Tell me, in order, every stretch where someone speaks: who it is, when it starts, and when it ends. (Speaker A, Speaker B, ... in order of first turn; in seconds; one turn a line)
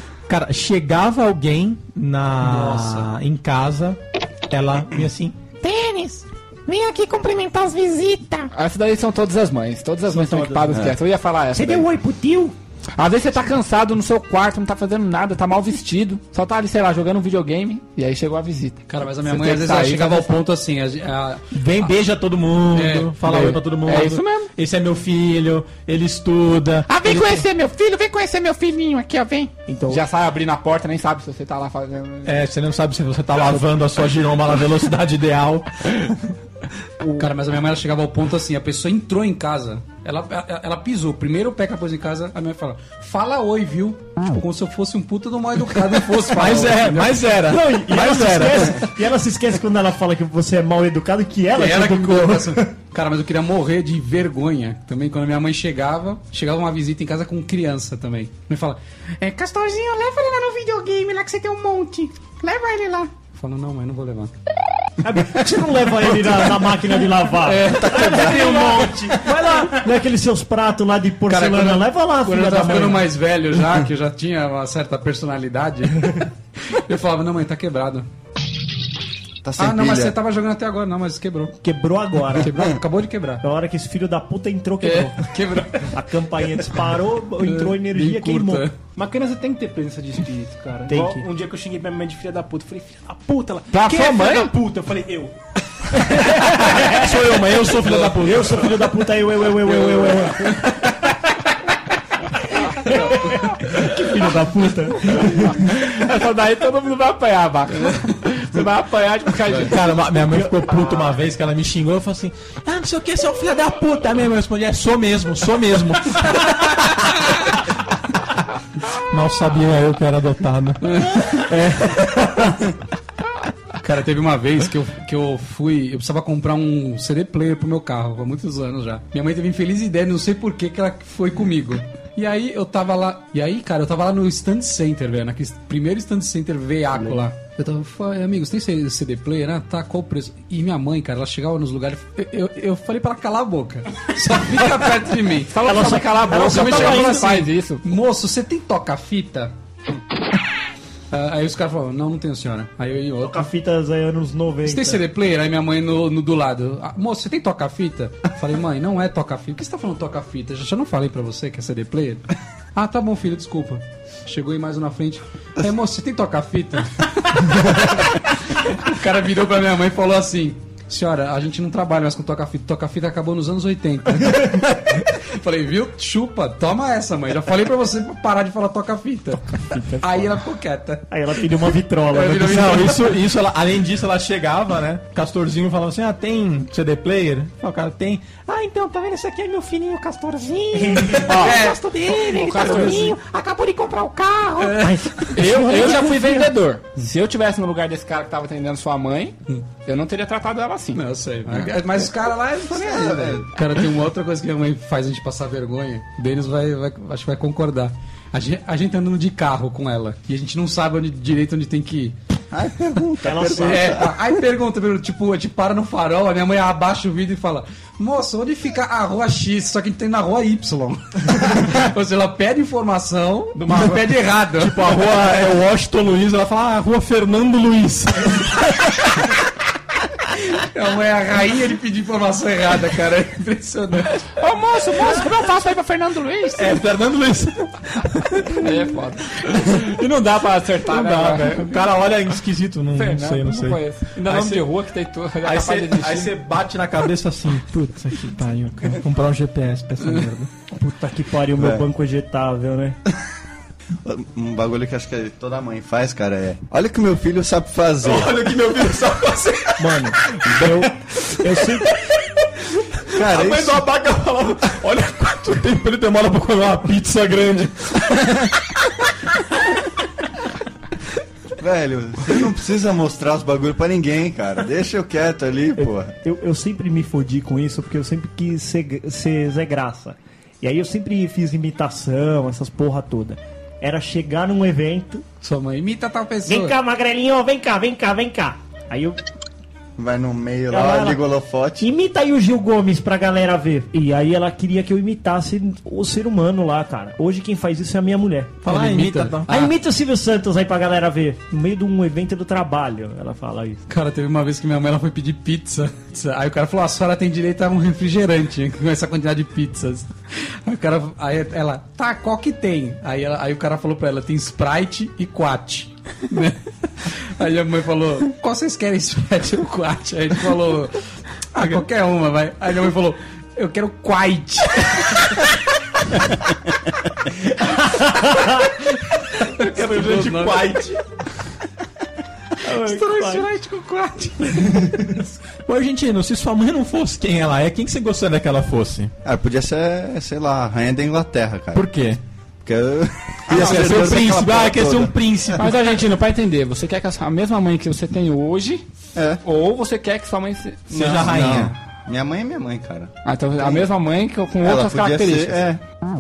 Speaker A: 0.3-5.4
Speaker B: 2.4-3.1
Speaker C: 5.6-8.5
Speaker D: 8.5-11.9
Speaker E: 10.2-10.6
Speaker F: 10.7-11.0
Speaker E: 11.6-12.5
Speaker D: 13.0-20.3
Speaker B: 18.9-21.9
Speaker A: 21.5-27.4
Speaker B: 22.7-23.6
Speaker D: 23.3-24.5
Speaker C: 26.9-29.5
Speaker D: 26.9-28.7
Speaker E: 29.7-30.0
Speaker D: 29.9-32.4
Speaker A: 32.2-36.0
Speaker B: 37.2-47.3
Speaker A: 46.2-48.9
Speaker E: 47.4-52.7
Speaker B: 51.5-58.8
Speaker C: 59.2-63.1
Speaker B: 63.3-64.3
Speaker E: 65.0-73.1
Speaker B: 67.4-68.8
Speaker F: 67.7-68.6
Speaker G: 68.0-69.8
Speaker B: 71.3-78.1
Speaker F: 79.4-80.2
Speaker B: 79.6-81.5
Speaker E: 81.6-82.5
Speaker B: 82.4-83.4
Speaker E: 83.4-85.3
Speaker B: 84.8-86.0
Speaker E: 85.9-88.7
Speaker B: 87.4-88.8
Speaker G: 89.0-95.4
Speaker E: 90.9-91.2
Speaker D: 93.7-94.5
Speaker E: 96.1-97.0
Speaker A: 96.5-98.7
Speaker B: 97.7-98.2
Speaker E: 98.1-100.8
Speaker B: 99.5-100.7
Speaker E: 102.6-105.8
Speaker B: 102.9-103.2
Speaker D: 105.7-109.9
Speaker A: 109.5-117.3
Speaker A: 119.0-121.2
Speaker B: 120.8-121.4
Speaker E: 121.5-122.6
Speaker B: 123.8-145.7
Speaker D: 145.5-147.9
Speaker E: 145.6-147.3
Speaker B: 146.3-149.5
Speaker B: 151.1-153.5
Speaker E: 153.2-155.0
Speaker B: 154.7-181.1
Speaker E: 179.7-180.4
Speaker E: 181.1-183.0
Speaker B: 181.6-183.0
Speaker A: 182.3-193.2
Speaker C: 190.7-194.8
Speaker E: 190.7-191.4
Speaker D: 191.2-191.6
Speaker B: 191.4-191.8
Speaker D: 192.2-193.2
Speaker B: 194.6-195.2
Speaker E: 194.8-196.5
Speaker D: 195.3-201.0
Speaker B: 200.9-212.2
Speaker F: 202.7-203.5
Speaker F: 212.5-214.1
Speaker E: 213.2-214.0
Speaker B: 213.7-224.9
Speaker A: 223.7-229.2
Speaker B: 230.5-234.1
Speaker D: 234.4-236.8
Speaker A: 236.6-238.9
Speaker D: 238.6-241.8
Speaker A: 240.8-244.7
Speaker D: 243.0-246.4
Speaker A: 245.4-250.5
Speaker E: 250.7-253.0
Speaker F: 251.6-251.8
Speaker F: 254.0-258.3
Speaker A: 258.0-260.9
Speaker E: 259.8-262.0
Speaker F: 263.1-263.8
Speaker A: 263.1-268.5
Speaker F: 271.6-276.1
Speaker E: 275.8-285.2
Speaker B: 285.4-286.8
Speaker E: 286.5-289.2
Speaker F: 290.0-291.9
Speaker E: 290.7-291.2
Speaker E: 291.8-298.6
Speaker A: 298.6-299.5
Speaker B: 298.6-299.8
Speaker E: 299.5-303.8
Speaker B: 303.9-321.0
Speaker B: 321.5-325.4
Speaker A: 321.6-321.8
Speaker B: 329.4-330.8
Speaker A: 329.6-331.0
Speaker E: 332.6-333.4
Speaker C: 332.8-333.4
Speaker B: 333.2-334.2
Speaker E: 334.5-335.2
Speaker A: 335.6-339.1
Speaker F: 339.2-341.8
Speaker A: 341.7-342.2
Speaker F: 342.6-345.1
Speaker D: 343.5-344.0
Speaker A: 343.5-345.9
Speaker D: 345.6-348.9
Speaker F: 349.1-349.4
Speaker D: 349.4-351.4
Speaker A: 350.9-351.8
Speaker F: 350.9-353.9
Speaker D: 353.2-355.7
Speaker F: 354.6-355.8